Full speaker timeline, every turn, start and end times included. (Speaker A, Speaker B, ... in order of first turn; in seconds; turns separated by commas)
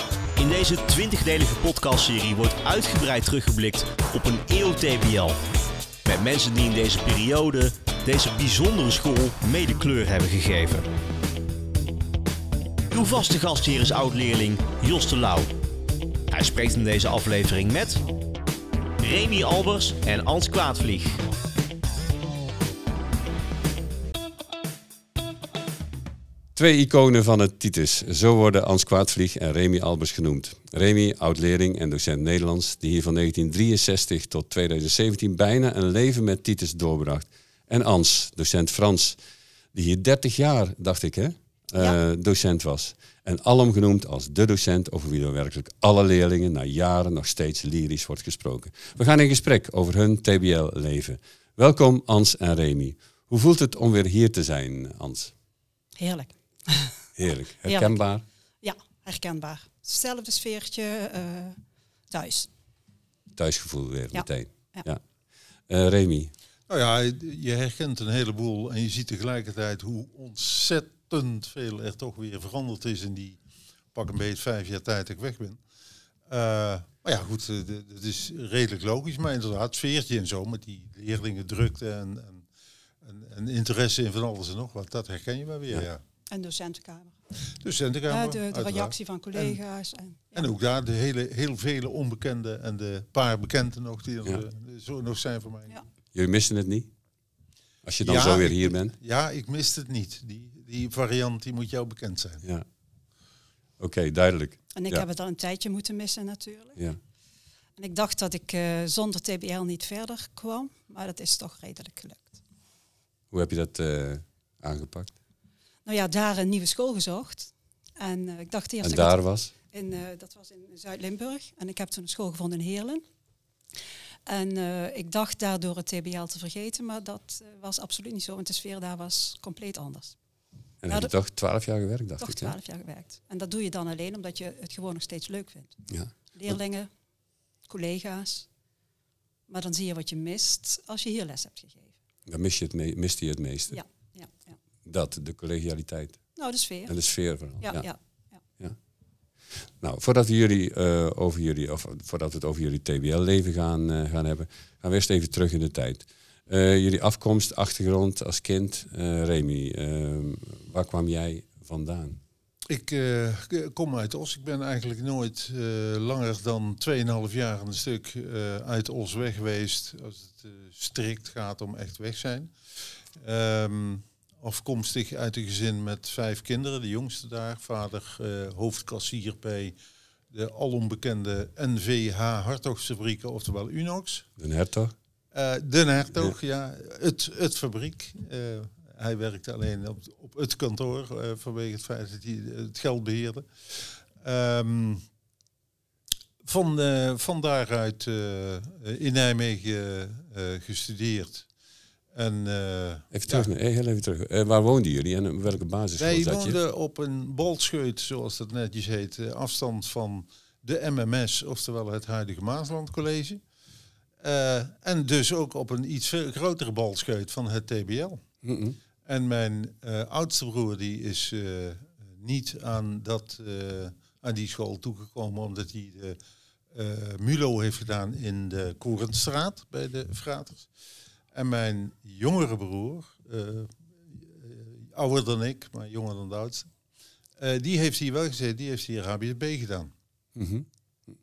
Speaker A: 0.4-5.4, Speaker A: 6.0-10.9, Speaker A: 12.9-15.5, Speaker A: 16.3-18.0, Speaker A: 19.0-21.2, Speaker B: 26.6-39.2, Speaker B: 39.7-55.3, Speaker C: 56.0-57.0, Speaker B: 57.2-58.2, Speaker C: 57.6-58.0, Speaker C: 58.6-61.6, Speaker C: 62.1-62.5, Speaker B: 63.4-65.0, Speaker C: 64.1-64.8, Speaker B: 65.7-66.3, Speaker D: 66.7-73.4, Speaker D: 73.9-75.6, Speaker D: 76.3-82.5, Speaker D: 83.0-86.0, Speaker C: 86.3-87.2, Speaker D: 87.6-89.6, Speaker C: 88.1-90.5, Speaker D: 90.3-95.8, Speaker B: 96.1-96.9, Speaker B: 97.8-98.9, Speaker D: 98.0-102.4, Speaker B: 103.8-105.0, Speaker C: 104.7-106.8, Speaker C: 107.8-112.4, Speaker B: 113.3-115.1, Speaker C: 115.8-123.0, Speaker B: 118.8-119.5, Speaker C: 124.2-130.2, Speaker B: 130.8-132.5, Speaker C: 132.2-136.9, Speaker B: 135.9-136.6, Speaker C: 137.7-138.5, Speaker C: 139.5-141.9, Speaker B: 142.3-143.8, Speaker C: 143.7-144.6, Speaker B: 144.8-147.9, Speaker C: 146.4-146.9, Speaker C: 147.6-148.4, Speaker B: 149.8-162.2, Speaker D: 162.7-172.5, Speaker D: 173.1-179.8, Speaker D: 180.3-184.3, Speaker B: 184.4-184.9, Speaker D: 185.3-195.0, Speaker D: 196.4-201.5, Speaker D: 202.1-203.5, Speaker B: 203.1-206.6, Speaker D: 206.0-213.4, Speaker D: 214.2-218.2, Speaker B: 218.4-218.8, Speaker D: 219.0-226.2, Speaker D: 226.7-230.7, Speaker D: 231.3-236.7, Speaker D: 237.4-239.9, Speaker B: 240.3-240.7